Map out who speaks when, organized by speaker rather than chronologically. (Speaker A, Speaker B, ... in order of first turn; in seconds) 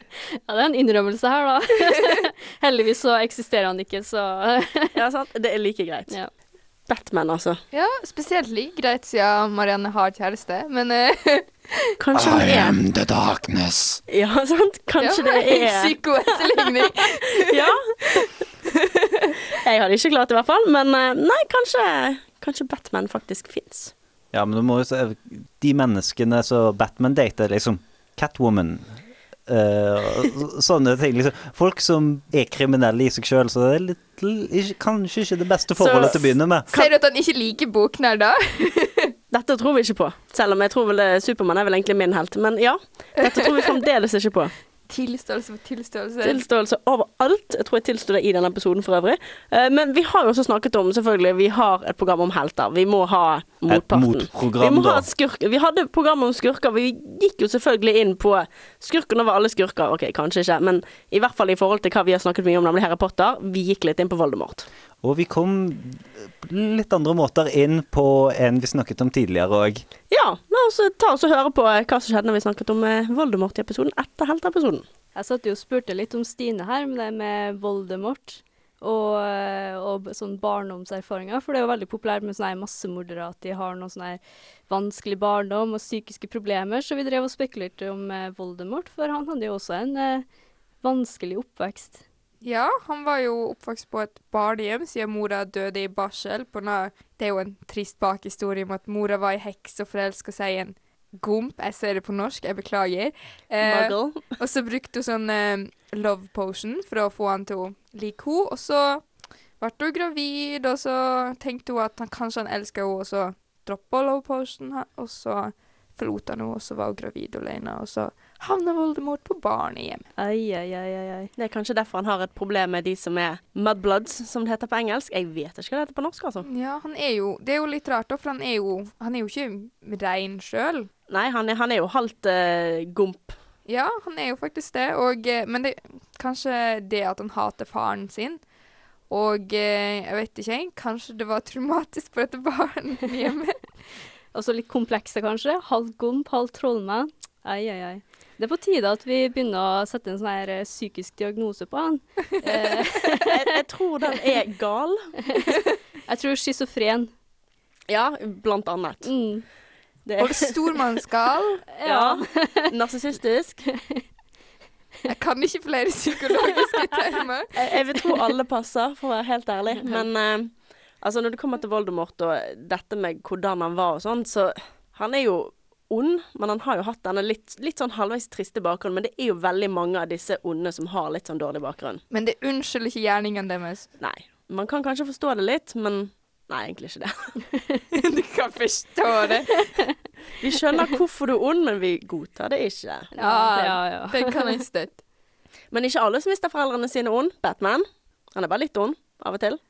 Speaker A: 0.5-5.0, 75.2-90.2, 90.8-92.0, 120.2-121.3, 144.3-153.6, 155.2-157.1, 159.0-159.4, 161.8-162.7, 163.7-164.0, 193.2-194.6
Speaker B: 5.0-6.1, 6.9-7.6, 12.0-12.8, 14.1-16.9, 17.4-18.3, 19.6-23.9, 35.8-36.9, 39.3-44.5, 46.2-64.7, 70.1-74.8, 103.6-104.2, 121.4-126.5, 131.1-133.3, 153.2-155.1, 157.9-159.1, 160.1-160.6, 161.8-163.6, 167.6-182.0, 184.0-187.3, 190.4-193.1, 195.7-199.6
Speaker C: 7.7-11.5, 15.0-17.7, 18.9-19.4, 36.7-39.1, 43.3-43.7, 44.9-46.4, 92.4-109.0, 109.6-120.1, 126.5-130.9, 133.7-138.4, 139.1-143.6, 160.2-161.6, 165.1-167.5, 182.1-183.9, 187.9-189.6, 193.2-195.0
Speaker D: 12.2-14.0, 24.3-28.9, 29.5-36.7, 53.7-55.1, 65.0-69.8